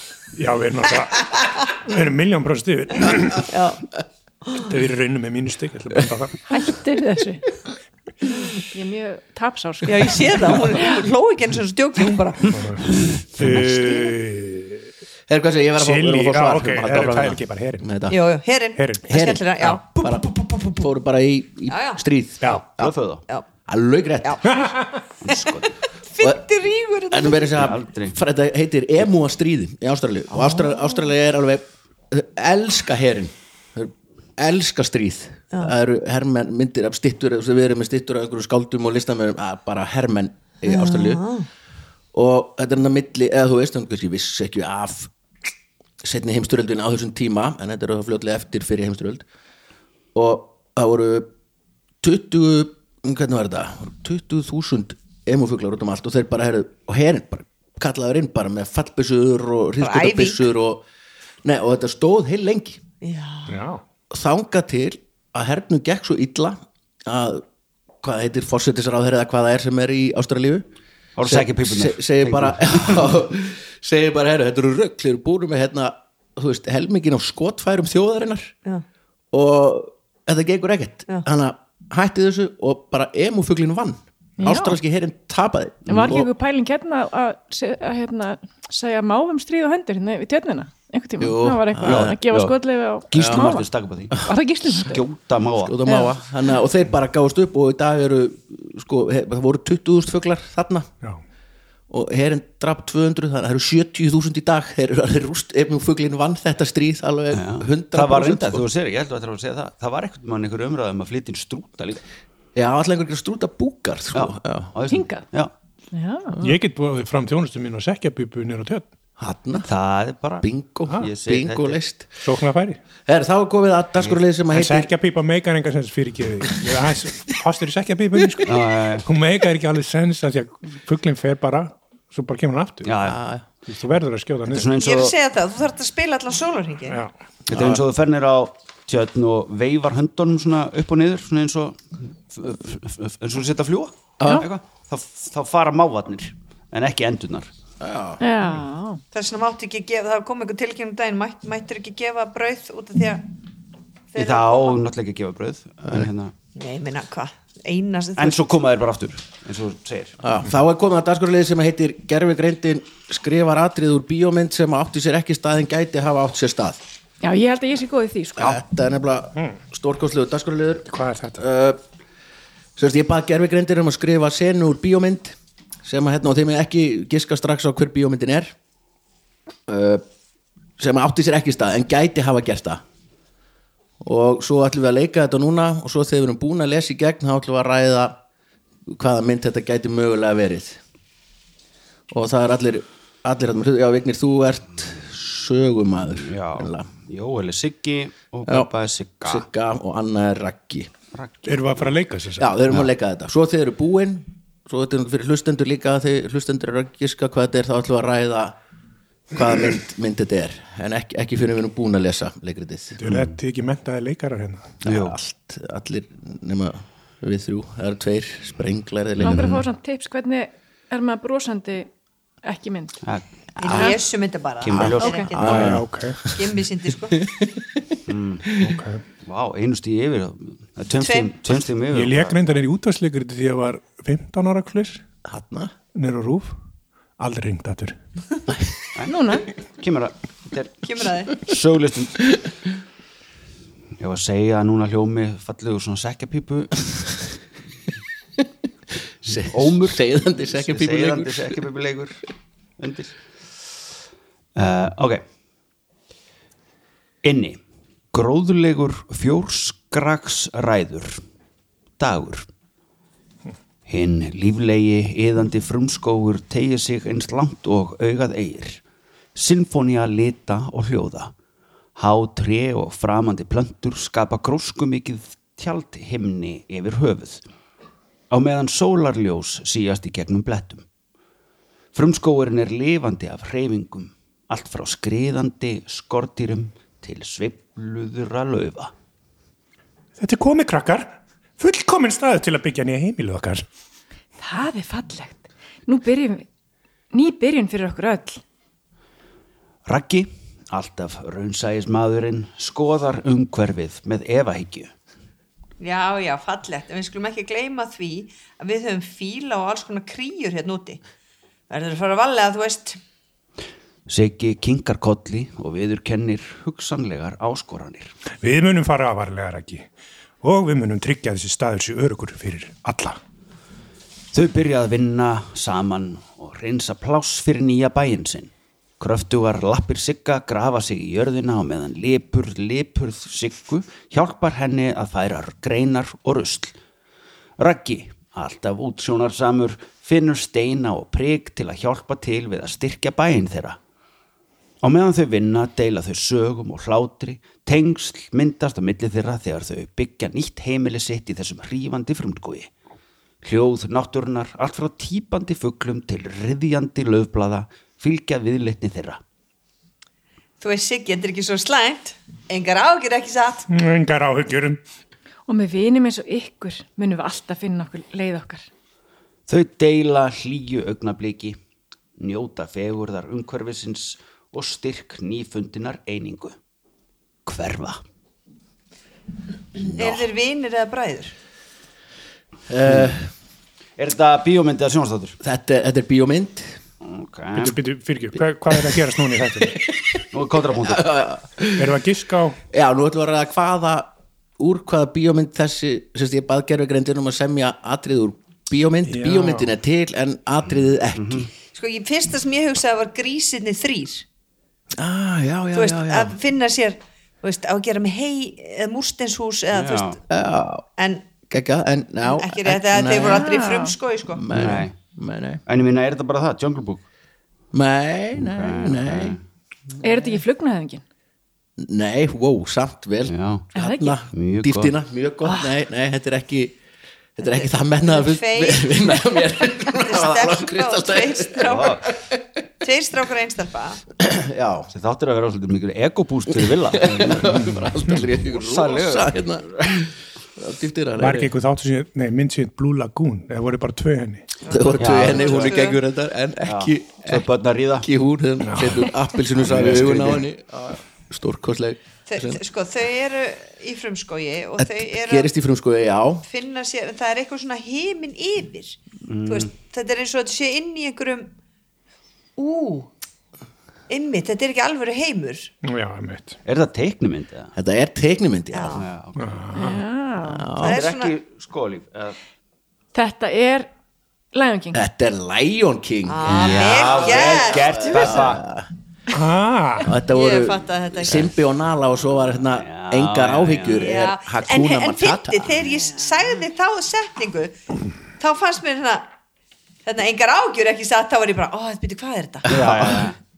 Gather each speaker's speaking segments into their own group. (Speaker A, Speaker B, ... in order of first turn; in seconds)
Speaker A: 0.3-3.5, 4.6-6.5, 12.5-14.8, 15.8-17.9, 18.8-19.1, 22.4-22.6, 24.4-25.0, 63.5-63.8, 116.4-118.9, 122.2-122.8, 124.5-132.9, 133.7-134.7, 170.9-171.4, 201.4-202.5, 213.0-214.8, 225.4-226.2, 228.6-229.0, 231.9-235.0, 235.9-236.6, 237.2-238.0, 290.2-293.6, 318.4-319.9, 320.4-323.2, 363.7-364.8, 387.6-389.8, 391.8-392.6, 399.1-399.7, 441.2-444.6, 448.6-449.0, 465.8-466.6, 469.4-470.0, 479.3-480.1
Speaker B: 3.5-3.8, 9.8-12.8, 18.1-20.2, 21.7-22.0, 24.2-24.7, 26.1-27.6, 30.3-31.0, 40.6-41.5, 59.8-60.4, 63.0-63.6, 134.8-137.0, 149.1-153.2, 154.1-154.8, 156.6-158.4, 223.6-227.3, 231.0-231.3, 240.8-241.4, 305.8-311.0, 311.7-313.0, 360.6-363.7, 379.8-381.3, 401.7-404.2, 405.7-410.2, 411.0-411.3, 412.2-414.4, 428.0-429.2, 429.9-432.0, 432.8-434.0, 444.8-446.0, 452.3-455.5, 456.5-461.5, 462.6-463.1, 464.1-465.7, 468.7-469.0, 470.8-471.3, 476.3-478.3, 480.2-481.5, 483.9-487.8, 488.4-489.3, 490.0-493.2
Speaker C: 6.5-7.5, 8.7-11.0, 84.4-84.8, 85.9-95.0, 114.9-115.2, 115.9-116.4, 148.2-149.0, 167.2-168.6, 219.2-221.9, 222.4-223.0, 223.7-224.0, 225.0-225.3, 239.1-239.5, 294.4-296.4, 297.1-298.4, 365.5-368.6, 413.2-413.9, 420.0-421.0, 423.7-424.1, 469.7-470.7, 473.1-473.9, 474.5-475.0
Speaker D: 15.3-18.2, 19.1-22.9, 23.7-24.6, 27.1-41.2, 42.1-45.1, 46.0-49.2, 50.1-51.3, 52.0-60.8, 61.4-62.8, 64.1-67.4, 68.0-70.6, 71.2-78.5, 79.3-86.3, 91.2-92.2, 93.1-93.5, 95.6-100.9, 101.9-108.7, 112.5-114.7, 119.2-119.7, 120.4-122.2, 123.0-124.9, 133.0-133.4, 137.5-137.8, 144.2-144.4, 147.8-148.2, 160.2-166.8, 168.4-171.8, 172.8-178.5, 179.7-180.0, 180.8-182.8, 184.0-188.2, 188.9-190.8, 192.1-196.9, 199.2-200.9, 202.4-208.6, 209.3-213.0, 214.8-219.6, 224.7-226.6, 227.2-227.9, 235.2-235.7, 249.2-251.6, 379.8-380.2, 382.7-383.3, 385.4-386.8, 389.6-390.2, 390.7-392.0, 392.7-401.5, 405.0-406.4, 410.3-410.9, 411.5-413.5, 414.3-415.6, 417.7-419.4, 421.8-426.8, 427.4-432.4, 434.2-434.9, 436.9-441.5, 444.6-447.4, 448.0-452.6, 454.8-456.5, 467.8-469.0, 470.4-471.0, 474.9-478.9, 480.0-485.8, 492.7-493.3
Speaker E: 22.8-23.2, 25.2-25.7, 27.6-28.2, 71.2-73.1, 91.8-92.5, 93.1-95.8, 107.3-112.0, 114.1-115.5, 119.6-121.8, 128.4-129.1, 132.8-133.2, 134.5-135.1, 137.5-147.5, 154.1-156.3, 158.2-160.2, 196.2-199.4, 201.1-201.9, 213.1-213.3, 214.8-215.2, 219.2-219.6, 223.0-224.0, 224.6-225.5, 228.1-232.4, 238.9-242.3, 244.0-246.9, 249.3-252.2, 252.8-253.2, 254.6-255.2, 257.2-257.6, 258.1-261.2, 262.0-262.5, 263.9-268.8, 269.3-271.3, 272.0-277.4, 278.3-280.8, 281.9-288.9, 299.9-304.9, 314.1-318.1, 324.3-336.8, 337.6-343.8, 344.8-352.7, 353.4-359.2, 369.5-371.6, 372.2-376.6, 377.4-378.0, 382.8-383.1, 384.0-385.4, 387.0-387.7, 390.3-391.1, 401.1-401.5, 409.7-410.2, 414.5-414.9, 415.6-417.0, 418.4-419.4, 423.3-423.7, 424.3-424.9, 431.6-432.0, 434.9-437.9, 438.4-439.4, 445.0-445.9, 446.6-448.1, 449.6-450.4, 459.3-459.7, 466.6-467.7, 468.9-469.8, 470.8-472.4, 476.4-478.6, 482.6-484.2, 492.7-493.4